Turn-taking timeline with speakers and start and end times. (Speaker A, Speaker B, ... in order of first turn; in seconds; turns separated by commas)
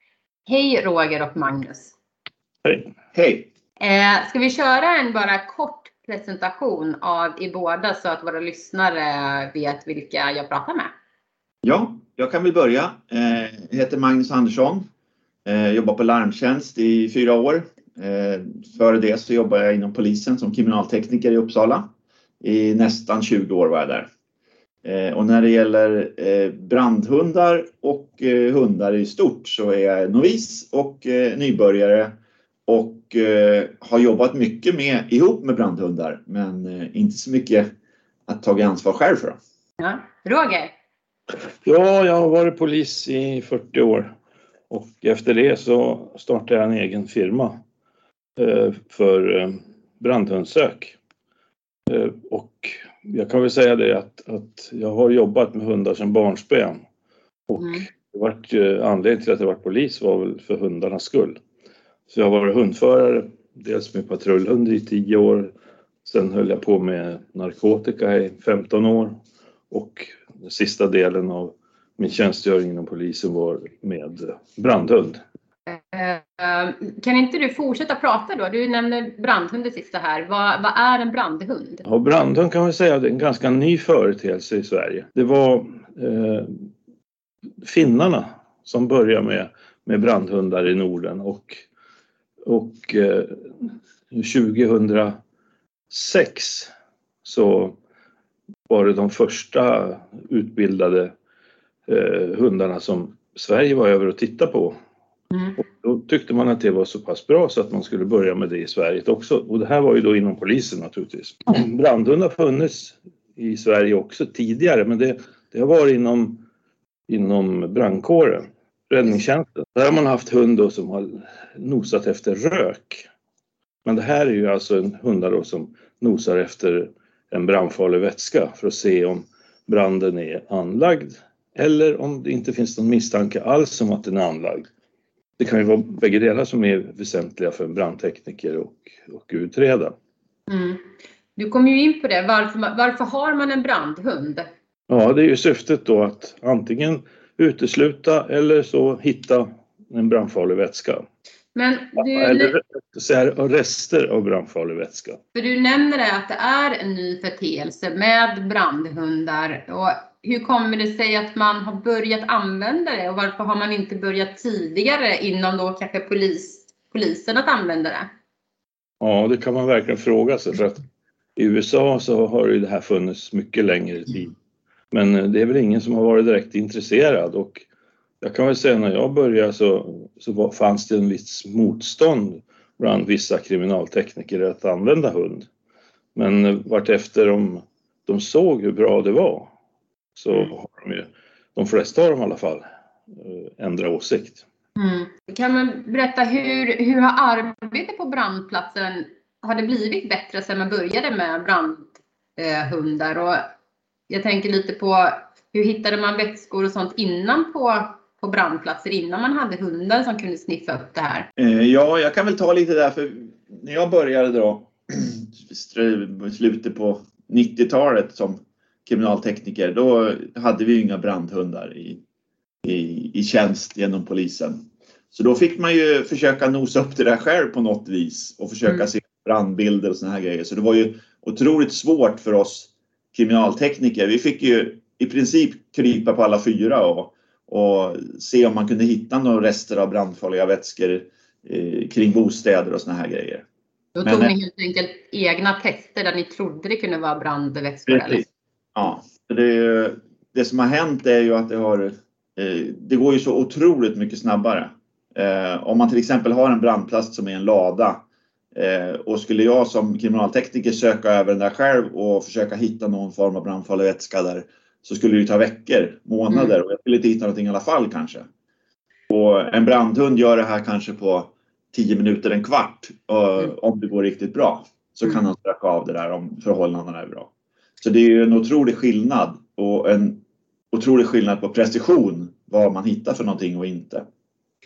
Speaker A: 0.5-1.9, Speaker B: 3.1-3.5, Speaker A: 3.8-10.9, Speaker B: 11.6-14.9, Speaker B: 15.4-21.9, Speaker B: 22.4-24.1, Speaker B: 24.8-37.7, Speaker B: 38.3-39.4, Speaker A: 39.8-40.7, Speaker C: 41.5-44.1, Speaker C: 44.7-47.6, Speaker C: 48.4-51.0, Speaker C: 51.9-56.8, Speaker C: 57.5-61.4, Speaker A: 57.6-57.8, Speaker C: 62.1-65.5, Speaker C: 66.0-69.2, Speaker C: 69.7-75.2, Speaker A: 75.7-81.8, Speaker C: 81.8-86.7, Speaker C: 87.6-91.6, Speaker C: 92.4-95.2, Speaker C: 95.9-96.7, Speaker C: 97.2-97.8, Speaker C: 98.7-101.1, Speaker C: 101.9-104.8, Speaker C: 105.6-116.4, Speaker C: 117.1-123.1, Speaker C: 123.8-134.7, Speaker C: 135.4-139.9, Speaker A: 140.5-144.5, Speaker C: 144.9-151.0, Speaker A: 151.5-152.5, Speaker C: 152.0-155.2, Speaker A: 155.3-168.1, Speaker C: 169.0-170.8, Speaker C: 171.3-174.3, Speaker C: 174.9-177.6, Speaker C: 178.2-185.5, Speaker C: 186.1-189.5, Speaker C: 190.2-192.6, Speaker C: 193.2-194.4, Speaker A: 194.8-203.4, Speaker A: 204.1-211.3, Speaker B: 211.4-222.0, Speaker B: 222.6-224.6, Speaker B: 225.1-243.4, Speaker A: 243.9-248.2, Speaker B: 244.0-244.3, Speaker B: 247.9-258.0, Speaker B: 258.5-268.2, Speaker A: 266.3-266.6, Speaker B: 269.1-284.1